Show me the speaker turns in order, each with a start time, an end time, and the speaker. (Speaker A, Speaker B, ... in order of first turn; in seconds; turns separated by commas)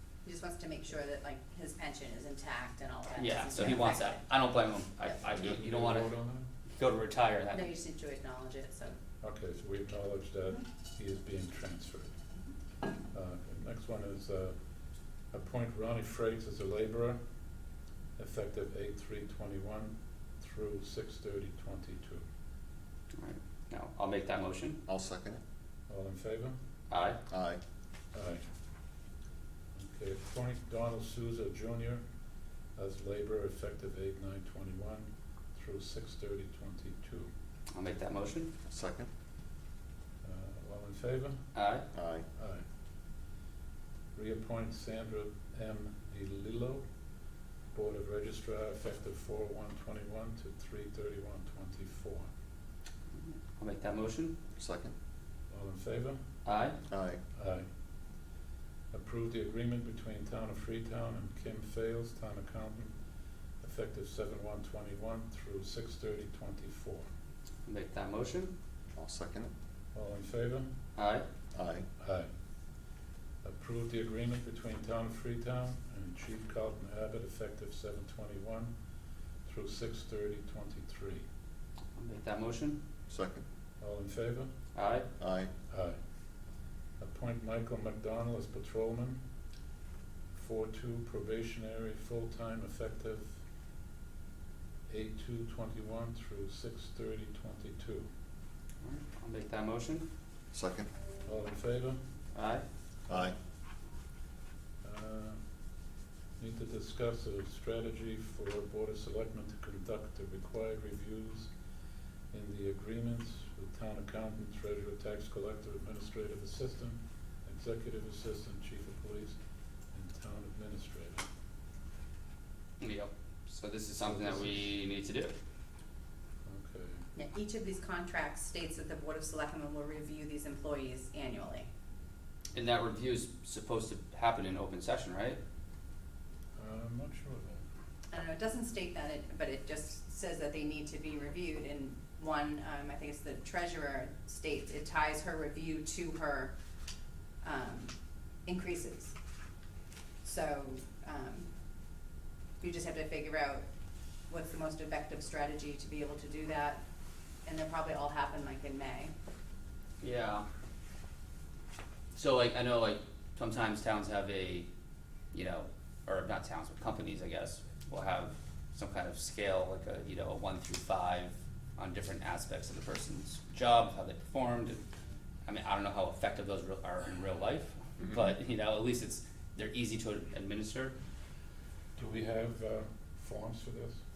Speaker A: 0.2-4.2, Speaker B: 3.1-6.1, Speaker C: 5.3-6.5, Speaker B: 6.8-7.7, Speaker A: 7.5-9.0, Speaker C: 9.2-12.1, Speaker C: 13.1-14.5, Speaker C: 15.3-17.2, Speaker C: 18.2-22.2, Speaker B: 23.2-24.8, Speaker D: 24.9-25.4, Speaker C: 25.9-26.6, Speaker B: 26.9-27.2, Speaker D: 27.3-27.6, Speaker C: 28.1-28.4, Speaker C: 29.8-32.0, Speaker C: 32.8-37.3, Speaker B: 37.7-38.5, Speaker D: 38.7-39.1, Speaker C: 40.2-41.4, Speaker B: 41.5-41.8, Speaker D: 41.9-42.2, Speaker C: 42.4-42.6, Speaker C: 44.1-46.8, Speaker C: 47.7-52.3, Speaker B: 53.2-54.4, Speaker D: 54.5-54.9, Speaker C: 55.5-56.2, Speaker B: 56.4-56.8, Speaker D: 56.9-57.2, Speaker C: 57.3-57.6, Speaker C: 58.9-62.9, Speaker C: 63.6-67.1, Speaker B: 67.7-68.5, Speaker D: 68.9-69.5, Speaker C: 69.9-70.7, Speaker B: 71.0-71.2, Speaker D: 71.5-71.8, Speaker C: 72.0-72.3, Speaker C: 73.4-78.7, Speaker C: 79.5-81.2, Speaker B: 82.0-82.8, Speaker D: 83.1-83.4, Speaker C: 83.8-84.5, Speaker B: 84.7-85.1, Speaker D: 85.2-85.5, Speaker C: 85.7-86.0, Speaker C: 87.0-89.2, Speaker C: 90.3-93.3, Speaker C: 94.9-98.1, Speaker B: 98.8-100.0, Speaker D: 100.5-100.9, Speaker C: 101.2-102.0, Speaker B: 102.3-102.6, Speaker D: 103.1-103.3, Speaker C: 104.8-105.4, Speaker C: 106.4-111.5, Speaker C: 112.3-119.4, Speaker C: 119.9-121.3, Speaker B: 122.8-125.3, Speaker C: 124.0-124.7, Speaker C: 126.5-127.0, Speaker A: 127.2-131.7, Speaker B: 132.5-135.4, Speaker C: 136.6-137.6, Speaker A: 138.1-146.5, Speaker A: 147.4-147.9, Speaker A: 148.4-149.2, Speaker A: 150.2-151.5, Speaker A: 152.6-153.6, Speaker A: 154.3-156.8, Speaker A: 157.4-159.1, Speaker B: 160.0-160.4, Speaker B: 162.1-164.7, Speaker B: 165.3-174.8, Speaker B: 175.4-180.9, Speaker C: 182.0-184.0